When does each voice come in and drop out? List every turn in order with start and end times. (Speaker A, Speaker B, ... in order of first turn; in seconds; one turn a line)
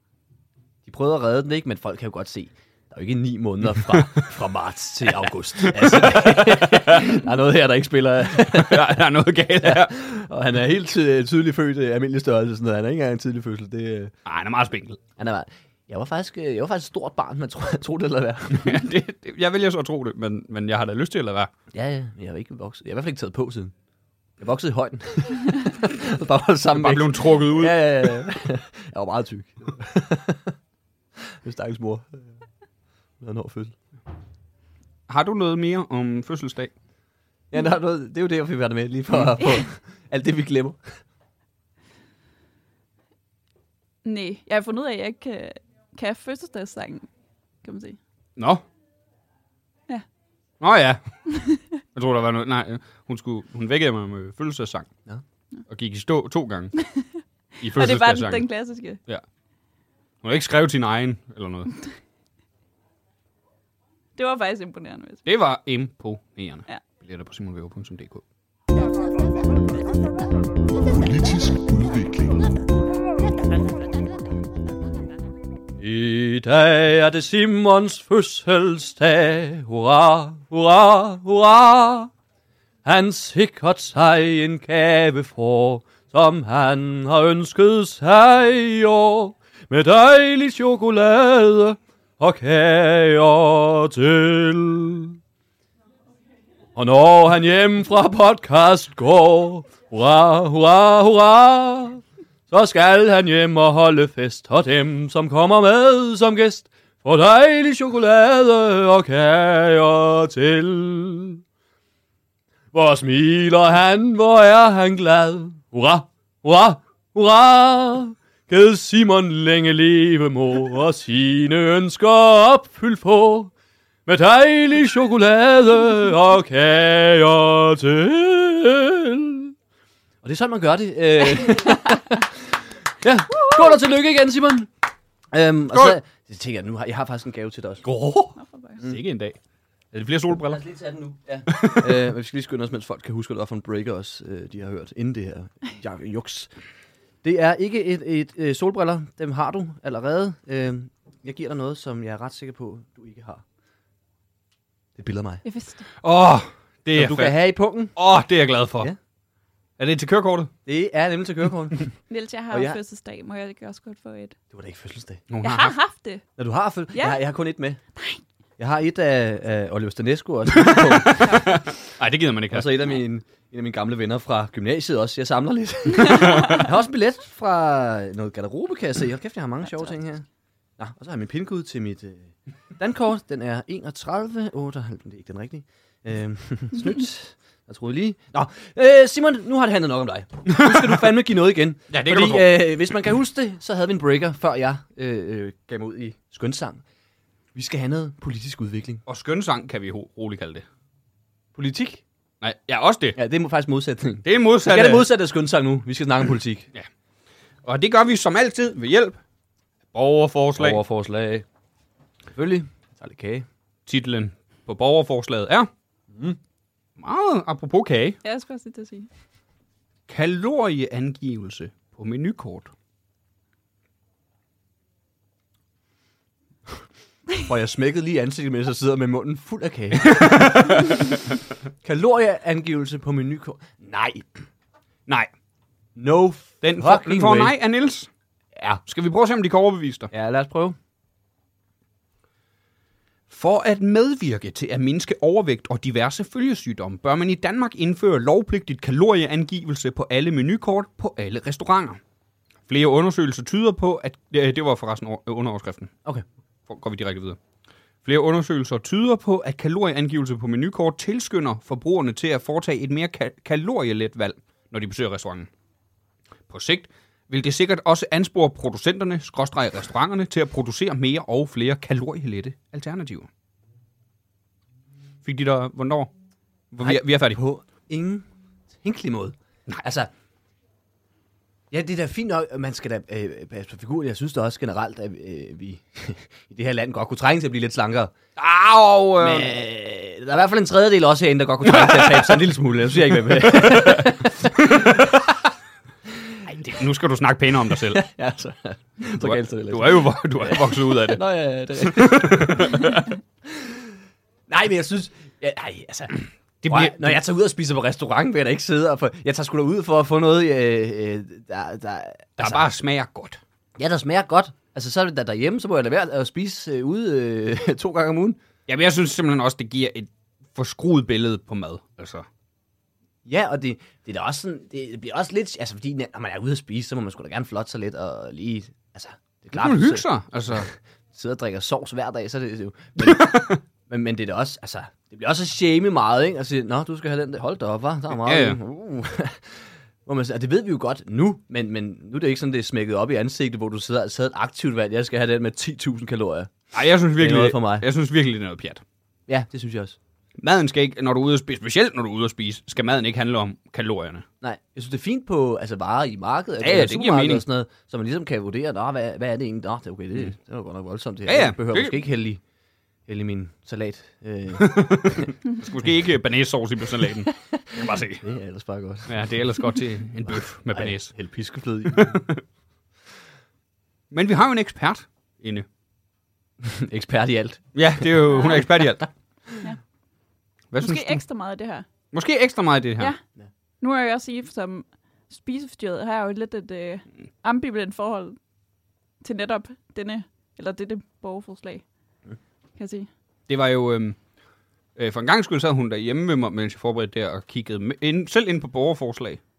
Speaker A: 0.8-9.0
Speaker B: 3.9-4.3
Speaker B: 5.5-7.1
Speaker B: 8.4-9.9
Speaker A: 9.6-14.1
Speaker B: 14.2-15.0
Speaker A: 15.2-18.9
Speaker B: 18.5-21.5
Speaker A: 21.7-23.7
Speaker A: 24.4-30.5
Speaker B: 26.7-28.2
Speaker A: 31.2-32.3
Speaker A: 33.2-33.7
Speaker B: 35.1-36.7
Speaker A: 37.5-40.8
Speaker C: 44.0-47.1
Speaker C: 47.6-48.0
Speaker B: 48.4-48.6
Speaker B: 50.6-51.2
Speaker C: 51.3-51.6
Speaker B: 51.9-54.9
Speaker B: 55.7-56.8
Speaker C: 56.8-57.1
Speaker B: 57.6-58.5
Speaker C: 57.6-59.0
Speaker B: 60.2-61.7
Speaker C: 64.2-65.2
Speaker B: 65.2-68.2
Speaker A: 75.8-82.1
Speaker A: 82.8-95.2
Speaker A: 96.7-111.4
Speaker A: 112.7-123.5
Speaker A: 124.0-129.5
Speaker A: 130.2-134.7
Speaker A: 135.3-137.8
Speaker B: 137.8-139.4
Speaker C: 138.4-138.8
Speaker B: 139.9-140.7
Speaker A: 140.5-146.5
Speaker B: 141.5-142.0
Speaker A: 147.2-153.4
Speaker A: 154.9-155.4
Speaker C: 155.4-155.9
Speaker B: 156.0-157.4
Speaker A: 156.9-157.9
Speaker B: 157.9-158.9
Speaker B: 159.8-160.5
Speaker A: 160.7-161.9
Speaker C: 162.1-164.3
Speaker A: 162.5-162.8
Speaker A: 164.5-165.2
Speaker B: 165.3-165.7
Speaker C: 165.4-166.2
Speaker A: 166.4-167.8
Speaker C: 166.9-167.2
Speaker C: 167.9-168.2
Speaker A: 168.6-171.7
Speaker B: 170.5-172.8
Speaker C: 171.2-171.6
Speaker A: 172.5-180.2
Speaker C: 176.0-176.7
Speaker B: 176.0-176.7
Speaker A: 180.8-196.8
Speaker B: 190.5-191.0
Speaker B: 191.9-192.8
Speaker A: 197.5-199.0
Speaker B: 199.1-200.6
Speaker A: 201.5-202.0
Speaker B: 202.4-203.2
Speaker A: 203.1-206.7
Speaker B: 204.2-205.1
Speaker B: 207.6-209.2
Speaker B: 209.9-210.8
Speaker A: 210.6-211.4
Speaker A: 212.3-213.4
Speaker B: 213.8-215.7
Speaker A: 216.1-216.4
Speaker B: 217.0-218.2
Speaker C: 218.2-219.1
Speaker B: 220.1-222.7
Speaker A: 227.4-230.9
Speaker B: 229.9-231.3
Speaker A: 231.8-234.3
Speaker A: 235.9-237.5
Speaker B: 236.6-238.1
Speaker A: 238.5-238.8
Speaker B: 238.8-240.1
Speaker A: 240.1-240.8
Speaker B: 243.3-252.0
Speaker B: 252.7-255.9
Speaker B: 256.7-257.4
Speaker B: 258.0-265.5
Speaker B: 266.5-273.3
Speaker B: 275.2-276.1
Speaker B: 276.7-277.4
Speaker A: 276.8-280.1
Speaker A: 281.7-288.1
Speaker B: 288.4-289.6
Speaker A: 289.2-295.4
Speaker B: 291.6-292.4
Speaker B: 293.1-295.1
Speaker A: 296.2-296.6
Speaker B: 296.4-298.0
Speaker A: 297.7-303.9
Speaker B: 299.2-301.2
Speaker B: 301.8-303.1
Speaker A: 304.5-312.7
Speaker B: 306.6-307.1
Speaker B: 312.4-313.4
Speaker A: 313.8-318.4
Speaker B: 318.7-322.2
Speaker A: 323.2-346.5
Speaker B: 329.5-330.7
Speaker B: 333.0-333.6
Speaker B: 338.2-338.6
Speaker B: 346.7-348.8
Speaker A: 347.1-347.9
Speaker A: 349.3-350.0
Speaker B: 350.4-354.2
Speaker A: 354.4-362.4
Speaker B: 356.6-357.4
Speaker B: 361.2-362.0
Speaker A: 363.1-365.3
Speaker B: 364.6-368.3
Speaker A: 367.0-369.2
Speaker B: 369.1-371.1
Speaker A: 370.3-372.2
Speaker B: 371.9-372.4
Speaker B: 374.1-375.6
Speaker A: 376.6-378.9
Speaker B: 377.7-379.1
Speaker B: 380.7-381.2
Speaker C: 380.8-381.9
Speaker B: 382.1-383.1
Speaker C: 383.8-388.4
Speaker C: 389.2-391.8
Speaker C: 392.8-393.1
Speaker B: 393.5-394.2
Speaker B: 394.9-399.4